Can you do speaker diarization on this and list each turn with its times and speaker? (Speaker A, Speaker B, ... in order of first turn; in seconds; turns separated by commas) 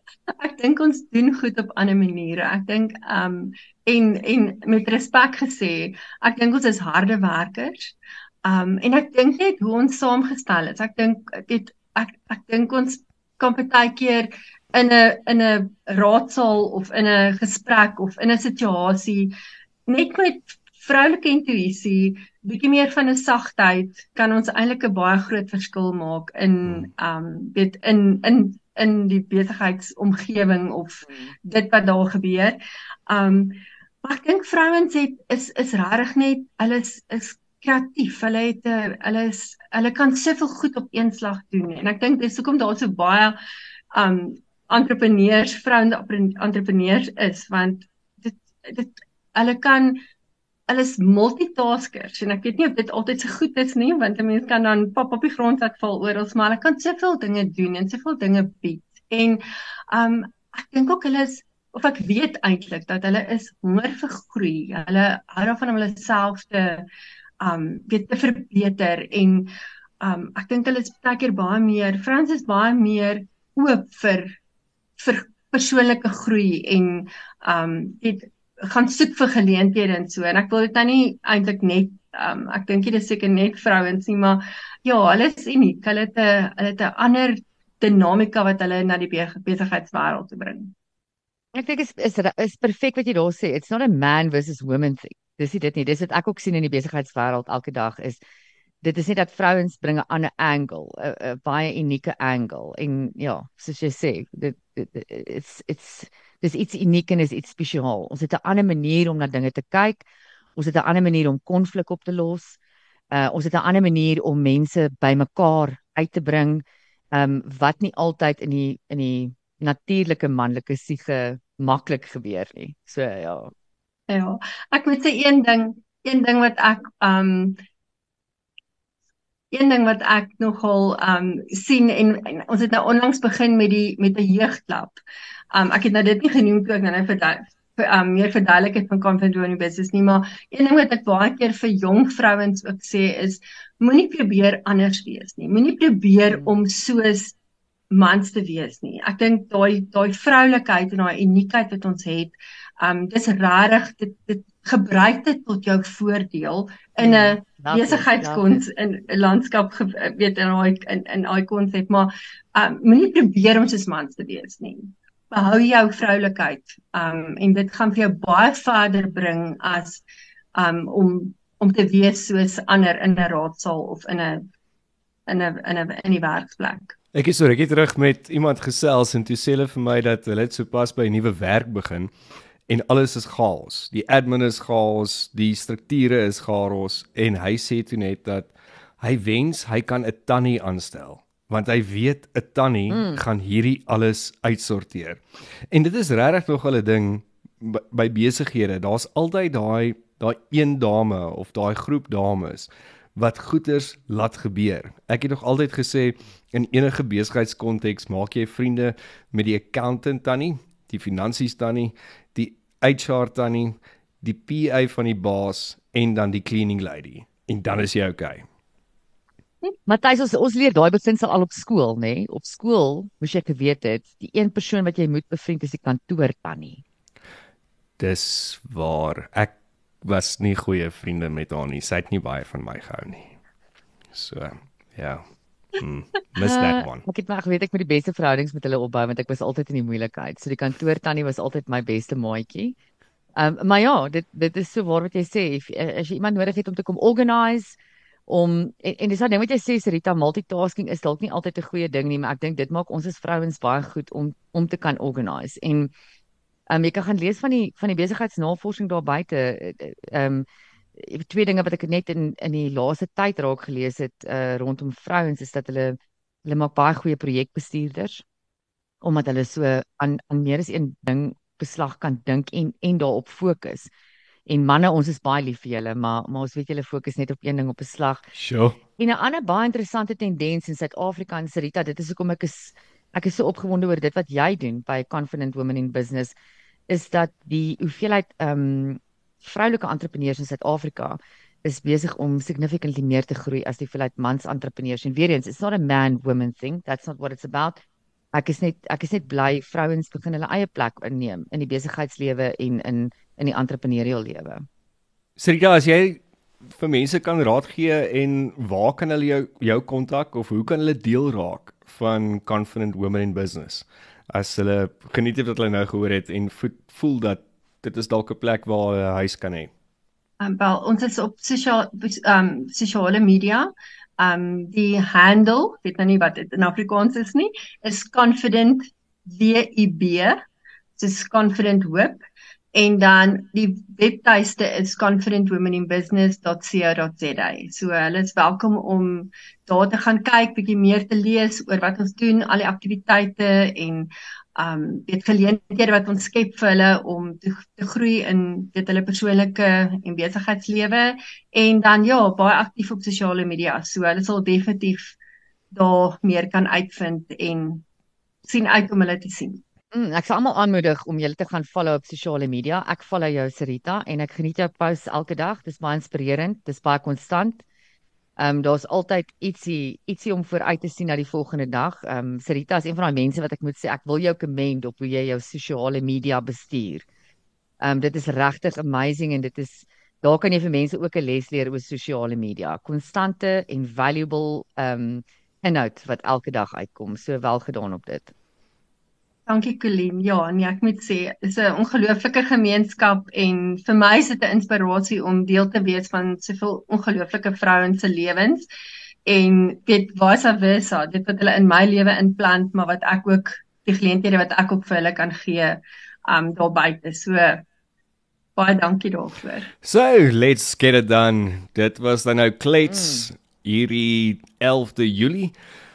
Speaker A: 0.3-19.3, Speaker A: 19.9-43.4, Speaker A: 43.9-50.0, Speaker A: 50.7-66.9, Speaker A: 67.4-69.5, Speaker A: 70.0-74.3, Speaker A: 75.0-90.7, Speaker B: 91.5-98.2, Speaker B: 98.8-110.0, Speaker B: 110.5-112.6, Speaker B: 113.1-123.5, Speaker A: 124.1-127.6, Speaker A: 129.5-135.0, Speaker A: 135.5-147.3, Speaker A: 147.9-170.0, Speaker B: 157.0-158.6, Speaker A: 170.5-174.4, Speaker A: 175.3-176.9, Speaker C: 177.1-182.1, Speaker C: 182.7-218.4, Speaker B: 192.9-193.2, Speaker B: 219.9-226.8, Speaker C: 228.0-233.3, Speaker C: 234.1-235.2, Speaker C: 235.8-237.0, Speaker B: 236.4-242.7, Speaker B: 243.3-255.9, Speaker B: 256.7-260.4, Speaker B: 261.0-268.2, Speaker B: 269.0-273.9, Speaker B: 274.5-278.3, Speaker C: 278.3-278.8, Speaker B: 279.0-286.3, Speaker B: 286.9-297.8, Speaker B: 298.3-304.6, Speaker C: 305.4-319.7, Speaker A: 320.4-330.4, Speaker A: 331.0-332.2, Speaker A: 332.7-355.1, Speaker A: 355.7-357.8, Speaker A: 358.4-359.6, Speaker B: 359.9-367.6, Speaker B: 368.4-377.1, Speaker B: 377.8-388.3, Speaker A: 389.5-398.6, Speaker A: 399.2-407.6, Speaker A: 408.6-409.7, Speaker C: 409.8-415.5, Speaker B: 412.9-413.3